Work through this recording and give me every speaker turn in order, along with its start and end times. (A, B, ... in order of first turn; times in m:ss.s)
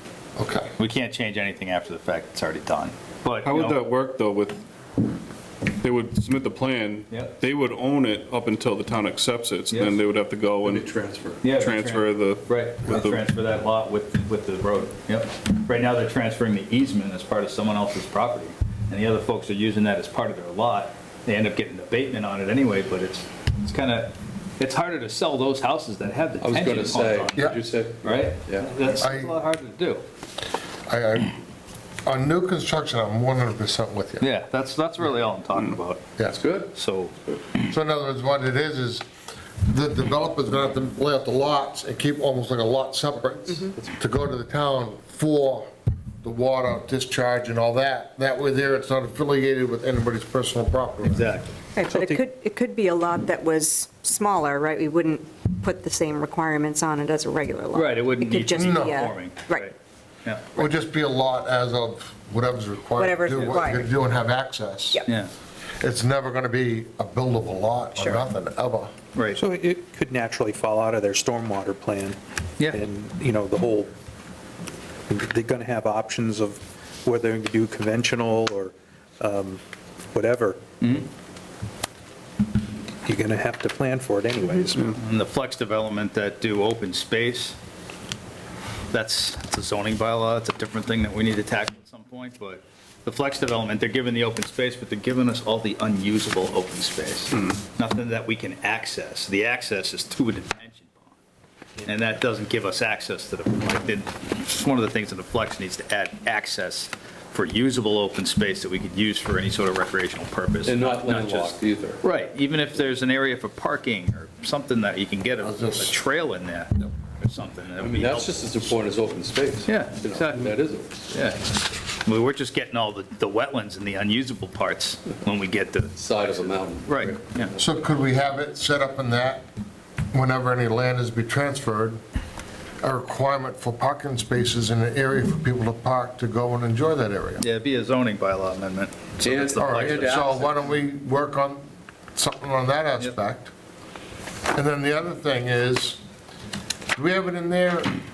0:00.4-0:00.7 A
0:00.8-0:03.8 B
0:03.4-0:04.6 C
0:05.8-0:13.2 C
0:07.1-0:07.4 B
0:09.7-0:10.0 B
0:10.6-0:11.5 D
0:11.4-0:30.0 B
0:26.4-0:28.7 D
0:29.0-0:29.3 A
0:30.9-0:31.4 A
0:32.0-0:34.2 A
0:34.2-0:36.1 B
0:36.2-0:36.7 D
0:36.7-0:37.1 B
0:37.7-0:39.0 A
0:39.7-0:45.7 A
0:46.2-0:51.3 A
0:51.0-0:51.5 B
0:51.7-0:59.7 E
0:51.8-0:52.2 F
0:57.7-0:59.7 B
0:58.6-0:59.1 A
1:00.2-1:00.6 B
1:00.6-1:05.0 A
1:03.0-1:03.9 E
1:05.8-1:08.9 A
1:08.0-1:08.2 E
1:09.1-1:09.4 B
1:09.3-1:12.2 F
1:12.7-1:13.9 F
1:15.1-1:19.6 F
1:20.1-1:20.6 F
1:20.8-1:21.1 B
1:23.0-1:25.0 F
1:25.0-1:27.6 B
1:28.9-1:41.1 B
1:37.3-1:37.6 C
1:41.8-1:58.7 B
1:50.6-1:52.0 D
1:55.4-1:56.0 A
1:57.8-2:01.0 D
1:59.7-2:01.5 B
2:02.0-2:07.5 B
2:06.0-2:07.6 D
2:07.6-2:09.4 A
2:10.1-2:12.0 A
2:12.8-2:17.4 A
2:17.4-2:20.4 B
2:19.2-2:20.5 D
2:19.6-2:21.6 A
2:22.2-2:23.5 A
2:24.5-2:26.0 A
2:26.9-2:27.9 A